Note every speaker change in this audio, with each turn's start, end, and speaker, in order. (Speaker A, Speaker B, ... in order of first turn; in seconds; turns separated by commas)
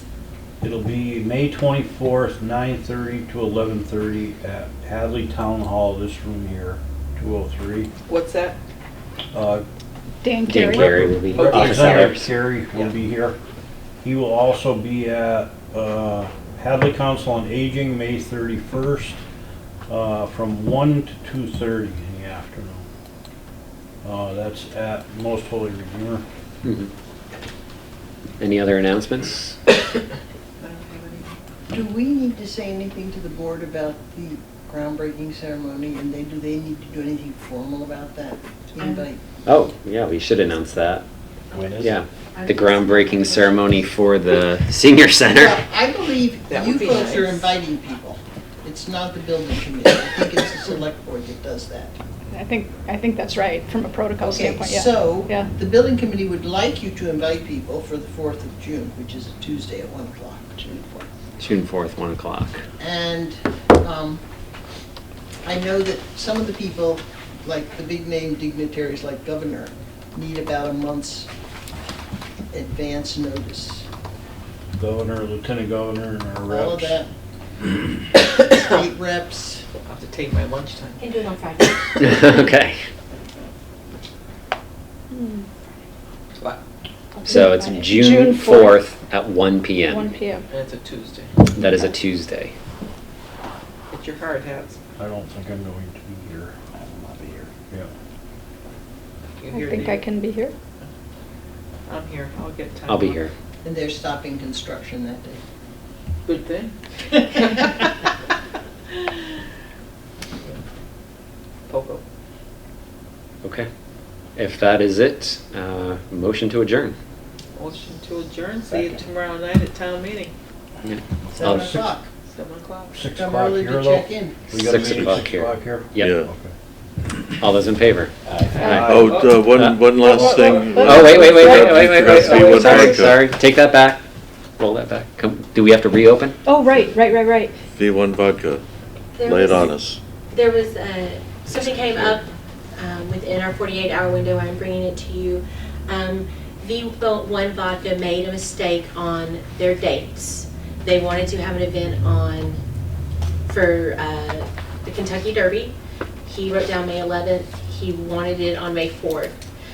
Speaker A: 0.6-7.9, Speaker B: 8.1-8.6, Speaker A: 9.3-9.7, Speaker C: 10.2-11.0, Speaker D: 10.5-12.3, Speaker A: 10.6-13.4, Speaker B: 11.3-12.2, Speaker A: 14.0-19.2, Speaker A: 19.9-22.9, Speaker A: 24.0-26.2, Speaker D: 26.6-26.9, Speaker D: 28.4-29.6, Speaker E: 30.6-39.2, Speaker D: 39.5-41.0, Speaker A: 41.5-42.0, Speaker D: 41.8-45.6, Speaker F: 42.4-43.7, Speaker E: 45.3-52.0, Speaker B: 46.5-47.5, Speaker C: 52.3-55.5, Speaker E: 54.2-61.1, Speaker D: 61.4-62.6, Speaker E: 62.8-64.2, Speaker E: 65.5-71.3, Speaker E: 72.5-73.9, Speaker A: 74.8-77.0, Speaker E: 76.5-77.1, Speaker E: 78.6-79.7, Speaker B: 79.8-81.1, Speaker F: 81.0-82.4, Speaker D: 82.0-82.8, Speaker C: 85.1-85.5, Speaker C: 87.2-88.8, Speaker D: 87.3-90.1, Speaker C: 89.9-90.5, Speaker B: 90.5-91.4, Speaker D: 91.5-92.5, Speaker B: 93.9-94.8, Speaker A: 95.0-97.9, Speaker B: 99.4-100.1, Speaker C: 99.5-100.5, Speaker B: 101.9-103.2, Speaker D: 102.9-103.3, Speaker E: 103.6-105.4, Speaker B: 106.3-107.9, Speaker B: 108.9-109.3, Speaker B: 111.7-112.0, Speaker D: 114.4-117.0, Speaker B: 117.5-120.3, Speaker D: 120.8-121.8, Speaker E: 121.3-122.1, Speaker A: 121.4-121.9, Speaker B: 122.3-123.0, Speaker A: 122.9-126.5, Speaker E: 123.1-124.5, Speaker D: 124.5-126.2, Speaker G: 124.7-125.3, Speaker G: 126.0-126.3, Speaker D: 127.4-128.7, Speaker A: 128.3-129.3, Speaker B: 128.5-129.4, Speaker G: 128.7-133.2, Speaker D: 129.4-129.8, Speaker C: 129.9-133.1, Speaker A: 130.1-130.9, Speaker D: 130.8-134.0, Speaker D: 134.6-136.4, Speaker C: 136.4-137.6, Speaker G: 137.8-138.6, Speaker F: 139.2-139.8, Speaker G: 139.2-140.0, Speaker F: 140.3-142.2, Speaker F: 142.8-152.6, Speaker F: 153.5-155.7, Speaker F: 156.3-159.4